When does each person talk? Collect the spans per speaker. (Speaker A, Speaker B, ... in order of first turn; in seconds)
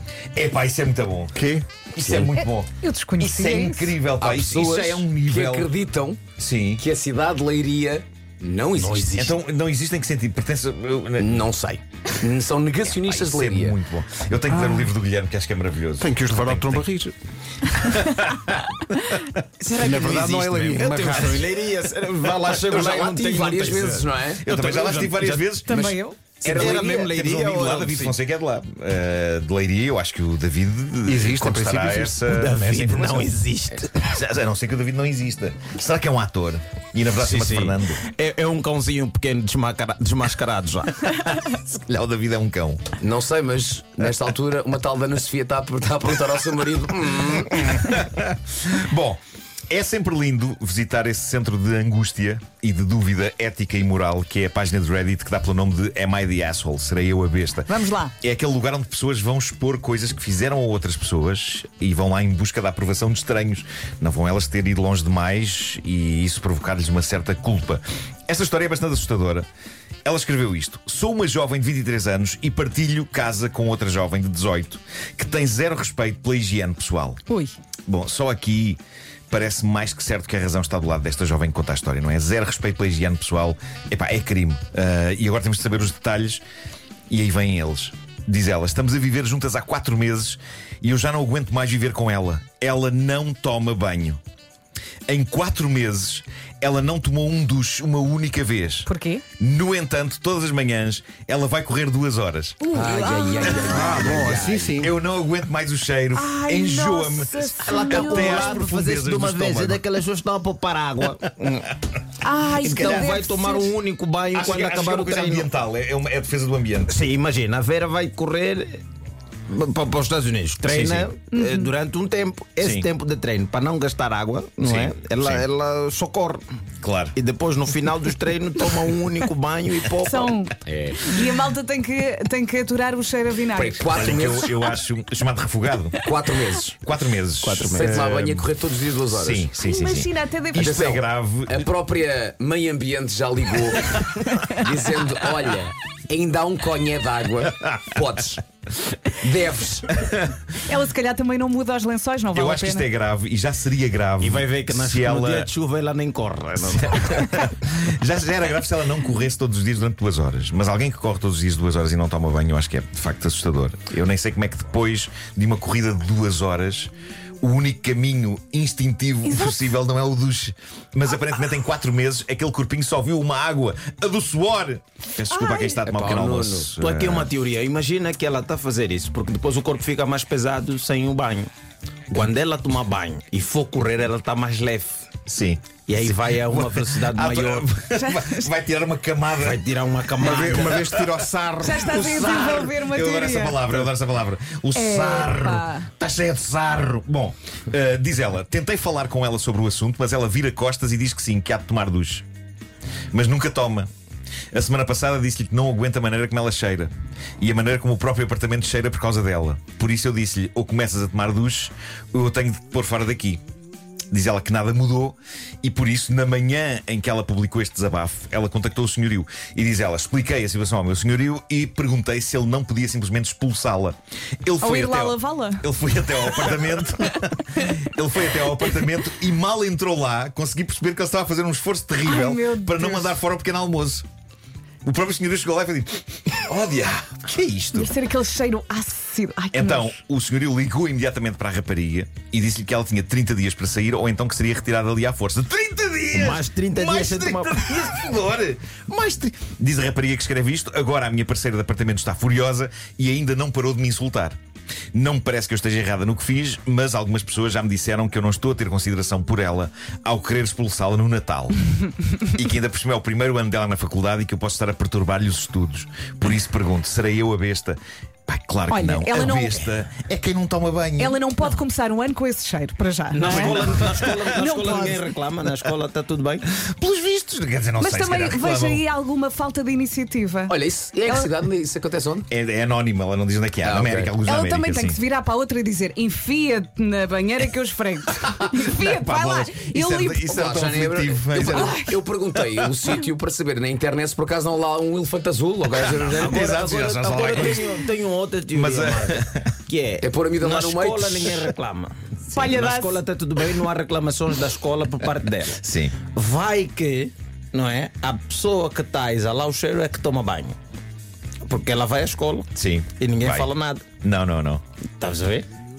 Speaker A: 0.3-1.4, 1.9-5.7, 6.4-6.8, 9.2-11.4, 13.0-16.9, 17.7-19.2, 24.4-33.3, 33.9-38.0, 41.4-43.0, 47.8-69.5, 70.0-77.2, 77.9-86.4, 87.1-94.2, 95.1-102.7, 104.8-109.8, 112.7-113.1, 114.3-116.9, 120.6-121.1, 122.6-122.9, 124.6-125.5, 126.8-127.2, 133.9-136.1, 136.8-138.4, 139.1-141.7, 152.3-155.5, 156.6-177.3, 185.3-189.6, 190.2-191.1, 191.7-202.2, 203.1-203.9, 204.5-213.4, 214.1-234.1, 234.8-238.0, 239.5-254.4, 254.9-261.6, 262.3-271.2, 273.2-274.4, 276.5-278.8, 282.3-285.0, 288.3-291.9, 295.8-297.9, 298.5-299.6, 305.6-306.0, 312.6-313.5, 314.0-314.6
Speaker B: 1.4-1.7, 16.0-17.1, 19.8-21.5, 31.1-32.2, 103.7-104.9, 190.2-192.1
Speaker C: 2.0-2.4, 4.2-6.2, 6.8-9.2, 11.2-13.8, 22.2-24.5, 26.4-27.1, 43.0-47.8, 102.7-104.8, 130.7-131.2, 133.5-134.5, 136.0-136.7, 137.7-139.6, 140.6-148.4, 149.1-150.0, 175.7-176.7, 280.5-282.3, 283.6-284.1, 290.3-296.6, 300.0-301.3
Speaker D: 2.8-3.9, 25.7-26.3, 57.7-58.1, 77.3-77.5, 98.9-99.2, 102.6-103.7, 106.2-108.4, 112.2-113.7, 121.3-121.7, 130.1-133.9, 139.7-140.6, 150.6-152.9, 188.0-188.5, 191.6-193.6, 194.8-195.9, 224.6-225.7, 226.2-226.7, 232.1-233.2, 237.7-239.9, 268.7-269.7, 271.0-273.7, 274.4-275.0, 277.8-281.3, 284.2-290.3, 291.6-291.9, 302.3-303.0
Speaker E: 8.8-9.4, 19.6-25.6, 26.4-28.1, 32.3-34.0, 37.2-41.3, 107.6-111.8, 112.5-115.5, 116.9-118.8, 119.5-126.4, 127.2-130.4, 137.4-138.1, 154.2-157.3, 176.2-181.5, 182.1-185.0, 185.9-187.7, 189.4-190.9, 246.1-247.9, 273.1-276.5, 296.1-305.6, 306.1-310.6, 311.4-313.8, 315.0-315.5